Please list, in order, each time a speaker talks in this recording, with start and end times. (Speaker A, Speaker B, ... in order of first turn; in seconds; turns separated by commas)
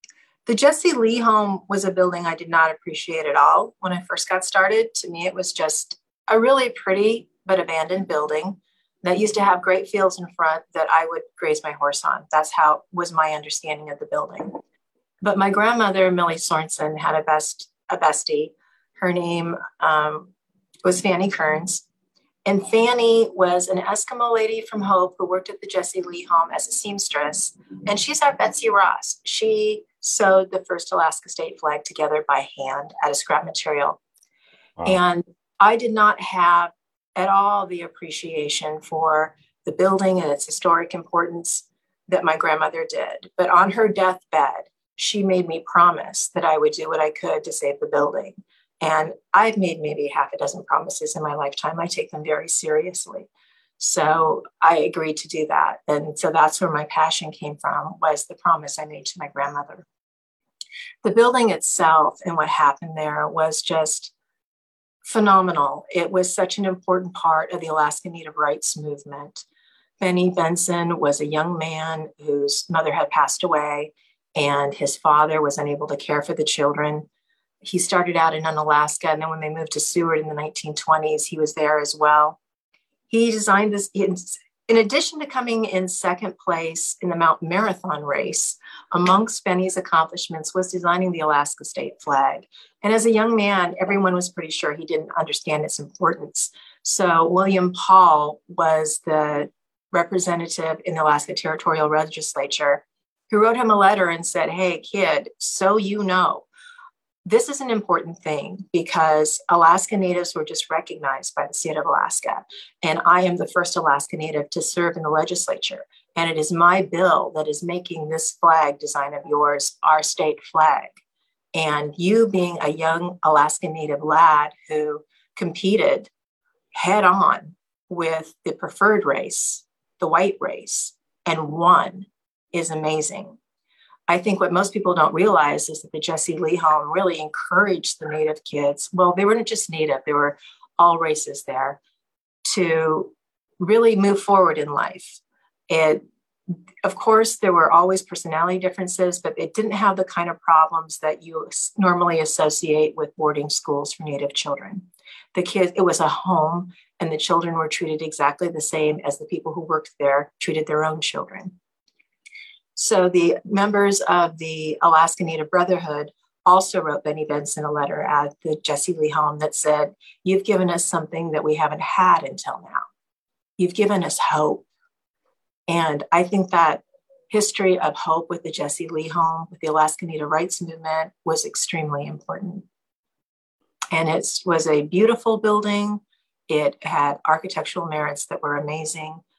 Speaker A: 0.5-14.6, Speaker A: 15.2-20.3, Speaker A: 20.8-21.8, Speaker A: 22.5-34.0, Speaker A: 34.9-59.9, Speaker A: 61.0-64.1, Speaker A: 65.0-69.5, Speaker A: 70.0-77.1, Speaker A: 77.6-82.4, Speaker A: 83.1-106.5, Speaker A: 107.3-121.0, Speaker A: 121.5-126.1, Speaker A: 126.7-133.4, Speaker A: 134.1-141.8, Speaker A: 142.4-161.5, Speaker A: 162.8-172.8, Speaker A: 173.6-174.7, Speaker A: 175.7-182.7, Speaker A: 183.9-189.2